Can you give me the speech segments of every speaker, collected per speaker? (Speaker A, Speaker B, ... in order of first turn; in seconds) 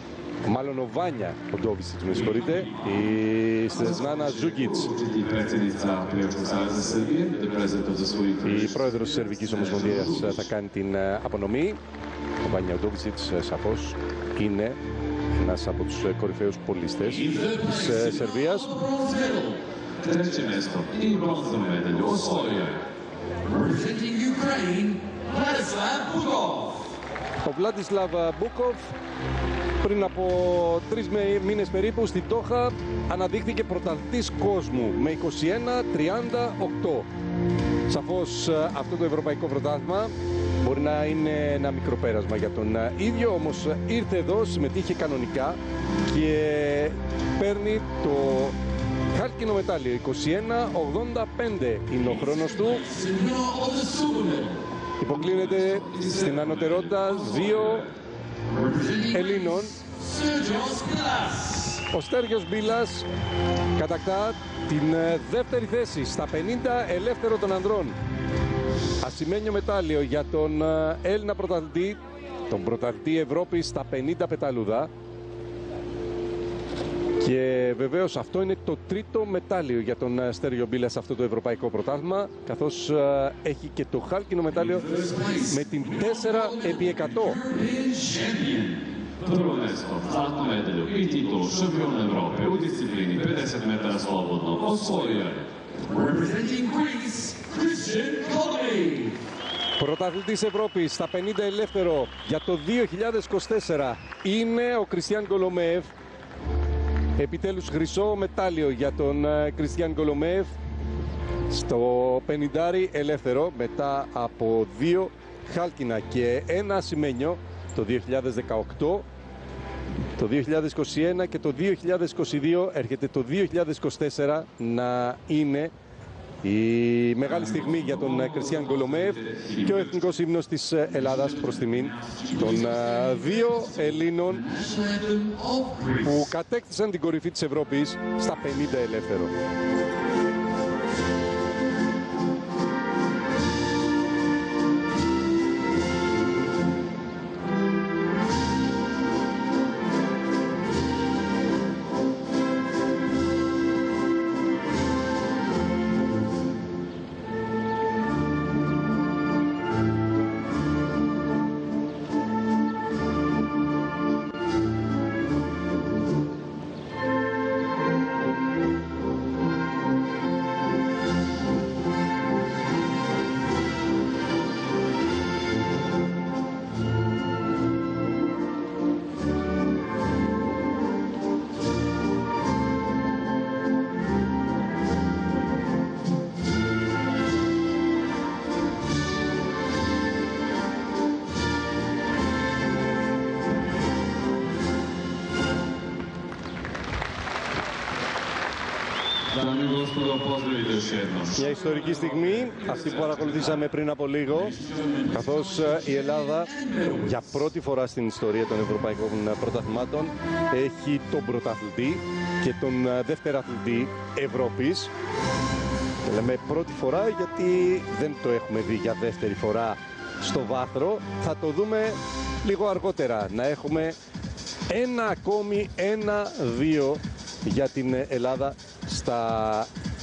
Speaker A: 0.4-4.9, 8.4-11.8, 12.4-14.8, 15.3-19.0, 27.4-28.9, 29.8-37.1, 37.9-48.6, 49.1-53.1, 55.0-57.9, 58.8-60.0, 61.7-63.1, 63.7-68.0, 69.0-74.9, 77.2-87.6, 99.8-105.9, 107.2-110.5, 111.5-119.0, 120.2-125.7, 126.4-134.7, 135.8-139.3, 201.3-214.9, 216.0-224.0, 224.7-229.7
Speaker B: 2.4-2.7, 3.9-10.4, 20.0-22.8, 55.7-56.7, 88.6-96.0, 128.2-129.5, 199.3-201.5
Speaker C: 19.0-19.6, 23.6-26.8, 53.0-54.6, 60.0-61.6, 87.6-88.7, 96.1-99.2, 134.7-135.8